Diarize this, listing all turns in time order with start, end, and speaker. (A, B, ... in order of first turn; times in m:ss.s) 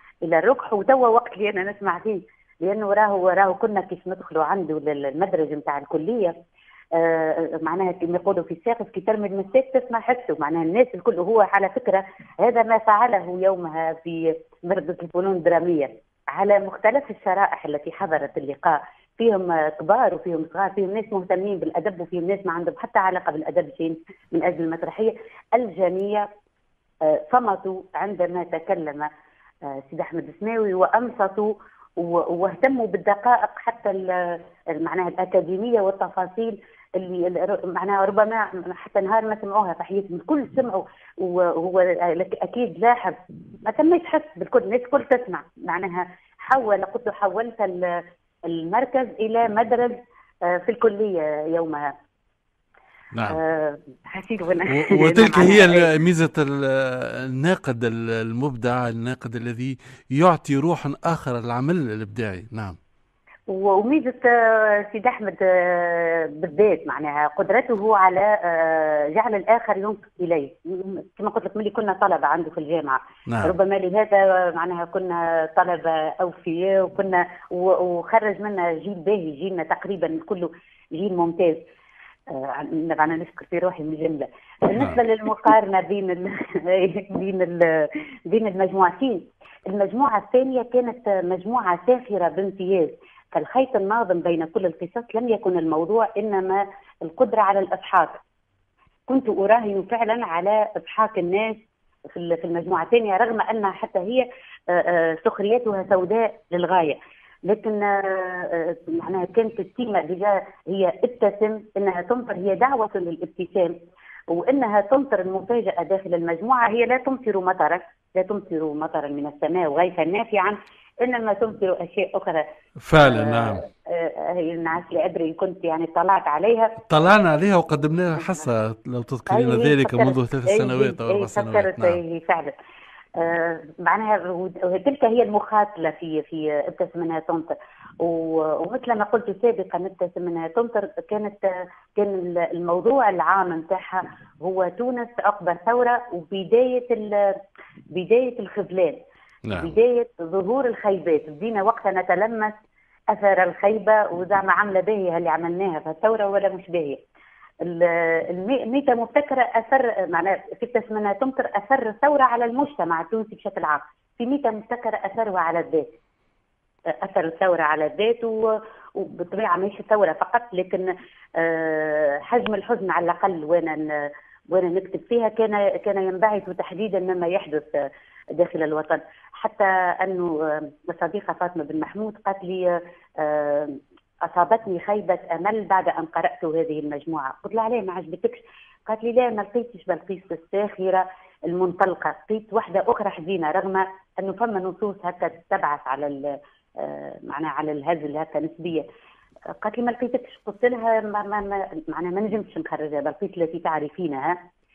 0:00.2-0:06.4 A
0:06.9-0:26.2 A
0:27.0-0:29.1 A
0:29.7-0:51.9 A
0:53.1-0:53.4 B
0:53.3-0:55.9 A
0:54.7-1:02.8 B
1:03.5-1:21.6 A
1:13.3-1:13.5 B
1:22.3-1:38.2 A
1:39.1-1:41.6 A
1:42.1-1:53.8 A
1:54.3-2:02.4 A
2:02.8-2:03.6 B
2:03.0-2:06.8 A
2:06.9-2:12.0 B
2:09.3-2:12.5 A
2:13.2-2:27.2 A
2:27.9-2:29.0 A
2:29.4-2:29.7 B
2:29.6-2:32.5 A
2:33.1-2:37.0 A
2:37.6-2:45.9 A
2:47.0-2:48.4 A
2:49.0-2:57.7 A
2:58.4-3:16.2 A
3:16.8-3:18.8 A
3:19.6-3:24.4 A